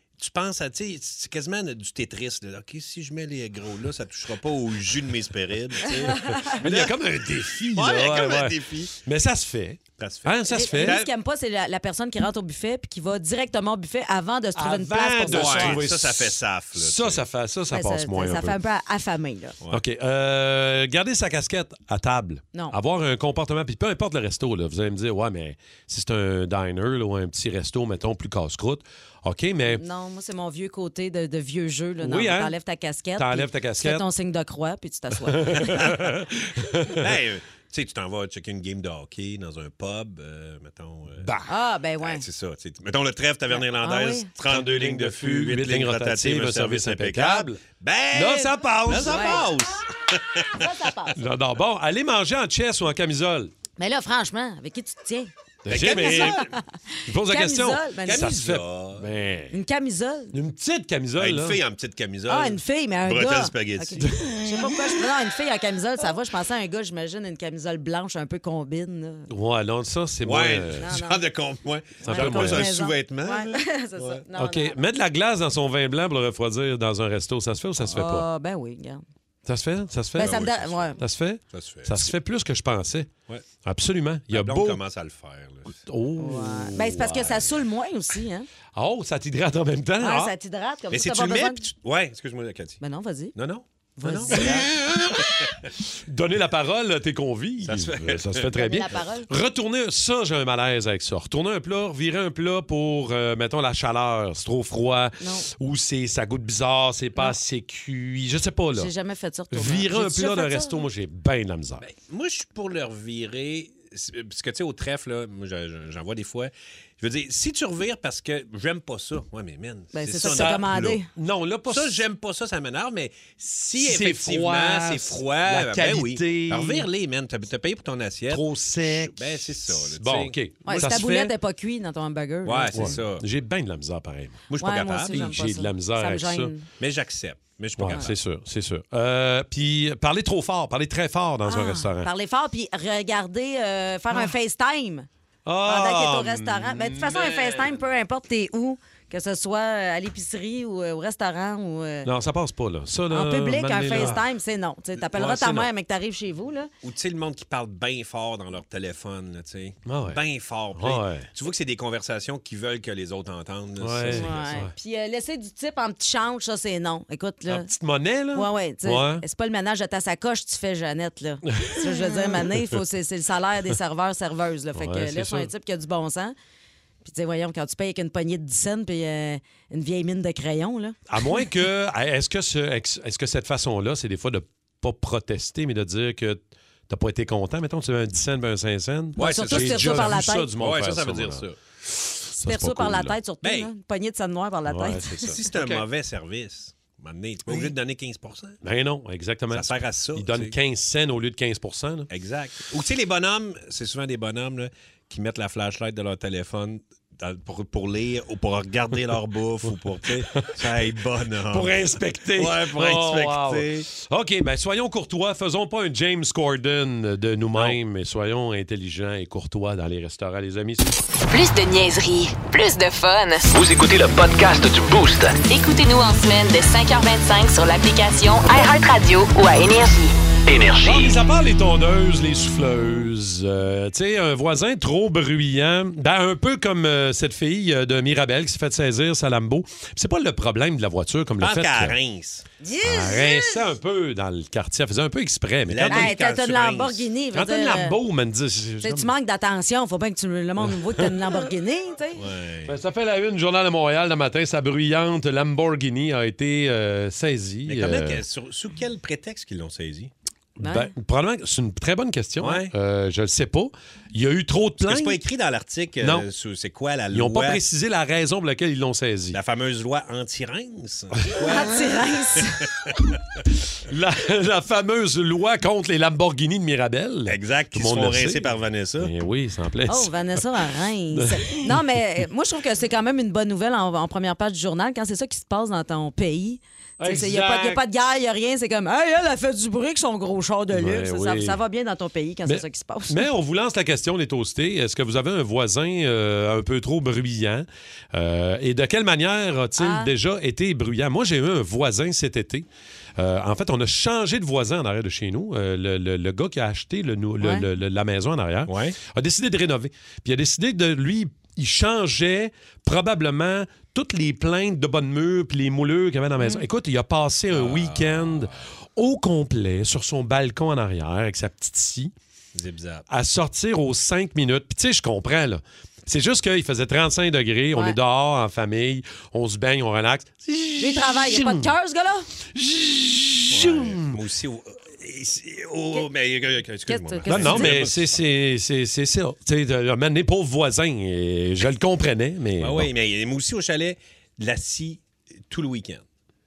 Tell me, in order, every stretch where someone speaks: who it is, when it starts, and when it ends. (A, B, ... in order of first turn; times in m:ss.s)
0:00.2-0:07.0 A
0:06.2-0:06.4 B
0:06.5-0:11.0 C
0:07.7-0:08.9 A
0:10.0-0:11.1 A
0:10.5-0:15.8 B
0:14.6-0:18.6 C
0:15.3-0:17.2 A
0:17.7-0:19.6 B
0:19.7-0:29.8 C
0:29.7-0:35.8 B
0:32.0-0:32.5 C
0:33.2-0:34.0 C
0:35.2-0:37.1 C
0:35.7-0:36.2 A
0:36.9-0:41.3 A
0:41.2-0:41.5 C
0:41.5-0:42.2 B
0:42.0-0:50.7 A
0:43.5-0:44.3 B
0:44.4-0:47.6 C
0:48.1-0:49.4 C
0:49.0-0:49.5 B
0:50.6-0:51.2 B
0:51.2-0:53.5 C
0:53.8-0:55.3 B
0:55.6-0:56.4 C
0:55.7-0:56.5 A
0:55.9-0:56.7 B
0:57.1-0:59.6 C
0:57.2-0:58.4 B
0:58.0-0:59.1 A
0:59.5-1:00.4 B
1:00.3-1:01.6 C
1:01.2-1:04.4 A
1:02.3-1:09.3 B
1:09.3-1:11.0 C
1:10.2-1:14.2 A
1:10.8-1:11.2 B
1:12.0-1:12.8 C
1:12.0-1:14.8 B
1:14.4-1:18.3 C
1:17.9-1:19.0 B
1:19.5-1:23.1 C
1:20.2-1:21.0 B
1:20.2-1:21.0 A
1:21.5-1:22.1 A
1:23.6-1:24.8 C
1:24.3-1:25.8 A
1:25.8-1:27.5 C
1:26.2-1:28.5 B
1:28.8-1:30.3 C
1:30.0-1:31.7 B
1:30.9-1:32.8 A
1:32.8-1:33.4 B
1:33.4-1:35.7 A
1:34.0-1:34.7 B
1:34.3-1:35.2 C
1:36.1-1:48.9 C
1:37.6-1:38.6 A
1:38.6-1:39.3 B
1:45.2-1:45.5 B
1:48.8-1:50.8 B
1:49.5-1:51.8 C
1:51.8-2:01.0 A
1:59.9-2:01.1 B
2:00.2-2:02.0 C
2:01.7-2:11.1 A
2:03.8-2:06.9 C
2:08.3-2:11.3 C
2:10.6-2:12.9 B
2:12.4-2:13.2 A
2:12.7-2:14.5 C
2:14.5-2:15.4 A
2:14.6-2:16.7 B
2:15.1-2:16.5 C
2:16.8-2:18.1 A
2:17.8-2:22.1 C
2:21.5-2:25.1 B
2:24.1-2:24.4 C
2:25.4-2:27.4 C
2:25.6-2:32.1 B
2:32.0-2:34.2 C
2:33.1-2:36.7 B
2:33.9-2:34.2 A
2:35.0-2:35.7 A
2:36.8-2:44.6 A
2:39.9-2:40.2 C
2:40.7-2:41.3 C
2:43.8-2:44.7 C
2:44.1-2:47.7 B
2:47.5-2:49.2 C
2:48.3-2:56.4 B
2:51.5-2:52.5 C
2:54.8-2:55.5 C
2:57.0-3:01.0 B
3:01.1-3:11.4 C
3:09.2-3:10.5 B
3:09.2-3:11.6 A
3:12.0-3:13.2 C
3:12.4-3:15.3 B
3:13.4-3:13.7 A
3:14.7-3:15.9 C
3:15.3-3:18.6 A
3:18.6-3:22.1 C
3:19.5-3:20.6 A
3:22.1-3:33.9 A
3:30.3-3:30.8 C
3:31.5-3:40.9 C
3:41.3-3:43.5 D
3:43.5-3:45.4 E
3:45.4-3:50.1 D
3:50.5-3:51.2 E
3:50.8-4:02.0 C
4:01.4-4:02.4 A
4:02.6-4:03.7 B
4:02.8-4:06.2 C
4:05.7-4:07.0 A
4:05.9-4:08.0 B
4:07.3-4:09.1 C
4:08.8-4:12.2 B
4:10.6-4:11.1 C
4:12.2-4:12.7 A
4:12.7-4:18.2 C
4:17.7-4:20.1 A
4:20.6-4:25.2 C
4:20.6-4:20.9 B
4:22.4-4:22.7 A
4:24.8-4:27.6 A
4:26.0-4:26.3 C
4:27.1-4:29.4 C
4:29.3-4:32.0 A
4:31.4-4:32.6 B
4:33.9-4:38.5 C
4:37.3-4:39.1 A
4:39.0-4:40.1 C
4:39.9-4:53.2 B
4:41.2-4:41.7 C
4:47.0-4:47.8 C
4:50.7-4:51.6 C
4:52.5-5:02.7 C
4:59.8-5:00.1 B
5:03.2-5:22.1 C
5:07.4-5:07.7 B
5:08.7-5:09.0 A
5:16.4-5:16.6 B
5:17.5-5:18.5 A
5:22.6-5:23.1 A
5:23.1-5:31.7 C
5:30.8-5:32.3 B
5:32.5-5:34.2 C
5:33.5-5:38.2 A
5:36.9-5:37.7 B
5:37.3-5:42.9 C
5:42.6-5:46.0 A